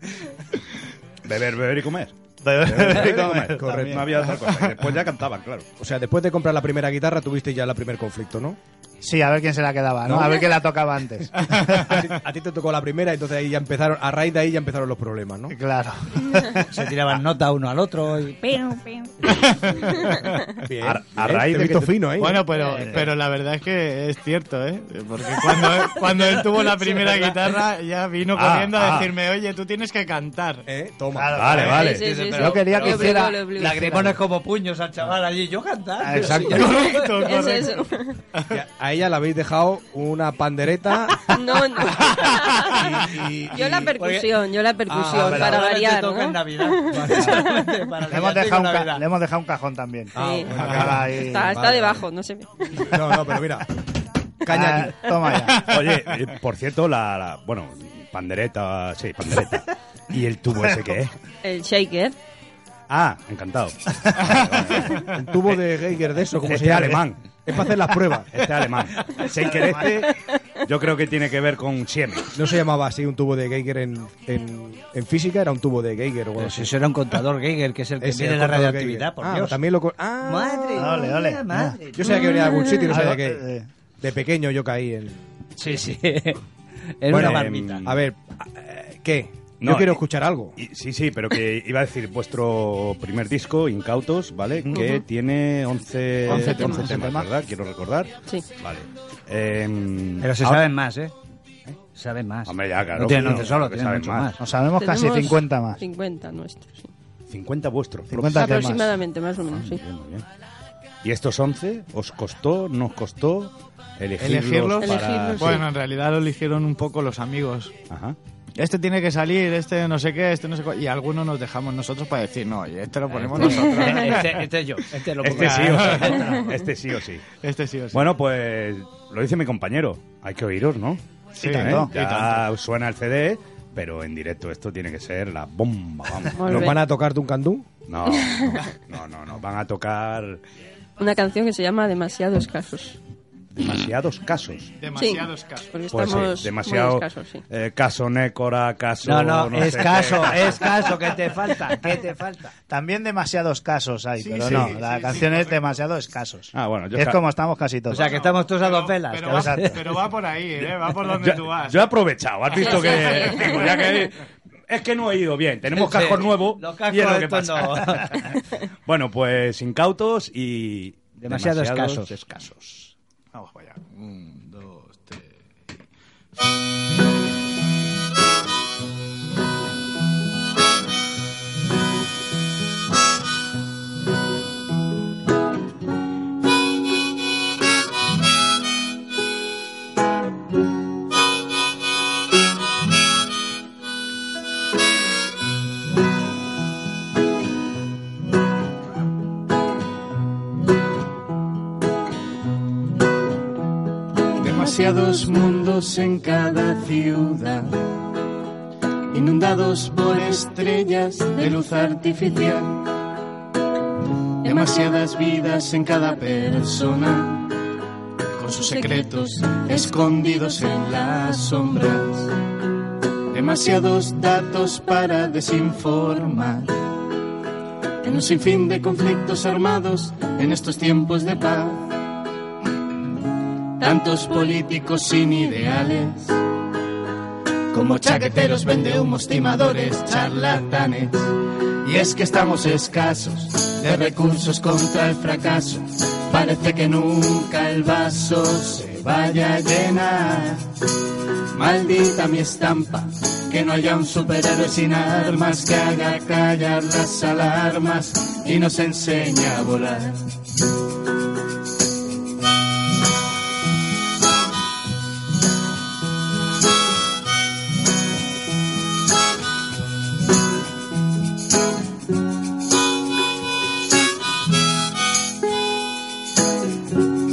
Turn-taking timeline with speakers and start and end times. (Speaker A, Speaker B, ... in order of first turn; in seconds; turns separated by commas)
Speaker A: 1.2-2.1, Speaker B: 2.4-4.0, Speaker A: 2.6-5.7, Speaker C: 3.3-4.0, Speaker C: 5.8-8.6, Speaker B: 9.0-12.0, Speaker C: 11.9-15.6, Speaker B: 15.5-16.7, Speaker D: 16.7-18.6, Speaker E: 19.3-20.4, Speaker C: 20.7-22.4, Speaker A: 20.8-22.0, Speaker E: 22.2-30.6, Speaker D: 22.6-22.9, Speaker D: 26.1-27.3, Speaker A: 28.3-29.1, Speaker C: 30.7-31.6, Speaker B: 31.1-33.3, Speaker A: 31.4-32.1, Speaker F: 31.7-34.1, Speaker D: 31.8-37.2, Speaker B: 36.0-36.7, Speaker E: 36.2-37.8, Speaker F: 36.8-38.2, Speaker C: 38.5-41.4, Speaker F: 41.3-42.9, Speaker C: 42.6-43.9, Speaker F: 43.5-47.6, Speaker D: 43.9-49.0, Speaker C: 44.9-45.5, Speaker C: 46.9-47.3, Speaker B: 48.1-51.5, Speaker C: 50.1-52.1, Speaker F: 50.2-50.6, Speaker E: 50.6-50.9, Speaker F: 51.1-52.9, Speaker C: 52.8-53.7, Speaker C: 54.4-54.9, Speaker B: 54.5-55.7, Speaker A: 55.6-61.1, Speaker F: 61.4-62.1, Speaker A: 62.9-65.6, Speaker C: 65.0-68.4, Speaker A: 66.4-67.2, Speaker A: 68.3-72.3, Speaker C: 72.3-76.7, Speaker D: 76.4-79.6, Speaker C: 78.0-81.0, Speaker D: 80.2-82.4, Speaker B: 80.8-81.8, Speaker C: 81.9-83.4, Speaker F: 82.1-82.9, Speaker B: 82.9-83.7, Speaker C: 84.0-85.2, Speaker D: 85.6-86.4, Speaker D: 87.0-87.9, Speaker C: 87.1-90.5, Speaker A: 87.1-87.9, Speaker A: 89.6-90.0, Speaker A: 90.5-100.6, Speaker F: 94.7-95.0, Speaker B: 96.3-97.3, Speaker F: 96.4-96.8, Speaker D: 100.2-101.1, Speaker D: 102.0-104.4, Speaker A: 102.5-104.3, Speaker B: 104.4-105.8, Speaker F: 104.8-106.9, Speaker A: 107.3-108.7, Speaker B: 108.1-108.9, Speaker F: 108.3-109.8, Speaker A: 109.2-110.2, Speaker A: 111.0-115.7, Speaker E: 114.2-117.7, Speaker F: 114.8-115.6, Speaker A: 117.9-118.2, Speaker E: 118.6-124.4, Speaker D: 123.1-126.3, Speaker F: 123.6-123.9, Speaker A: 125.2-127.2, Speaker E: 125.4-126.0, Speaker E: 127.4-128.1, Speaker A: 127.9-136.7, Speaker E: 131.3-131.9, Speaker B: 131.4-131.9, Speaker F: 136.3-136.8, Speaker C: 136.5-137.7, Speaker A: 137.9-140.4, Speaker F: 138.1-138.5, Speaker F: 141.0-143.0, Speaker A: 143.6-144.7, Speaker E: 144.8-145.7, Speaker F: 144.9-147.4, Speaker A: 145.9-150.7, Speaker D: 149.0-152.5, Speaker B: 152.7-158.1, Speaker E: 154.2-155.7, Speaker A: 156.5-157.2, Speaker D: 157.9-159.8, Speaker E: 158.0-161.9, Speaker B: 159.3-159.7, Speaker A: 161.1-164.2, Speaker F: 162.5-164.1, Speaker A: 164.7-168.1, Speaker D: 165.7-168.2, Speaker A: 168.8-172.9, Speaker D: 171.2-172.1, Speaker E: 173.3-175.3, Speaker G: 204.4-207.8, Speaker G: 209.1-212.8, Speaker G: 214.4-217.5, Speaker G: 218.4-222.2, Speaker F: 218.6-219.6, Speaker F: 220.1-220.6, Speaker G: 223.3-226.7, Speaker G: 228.0-231.9, Speaker G: 233.8-236.3, Speaker G: 237.7-241.3, Speaker G: 241.8-250.6, Speaker G: 251.5-260.2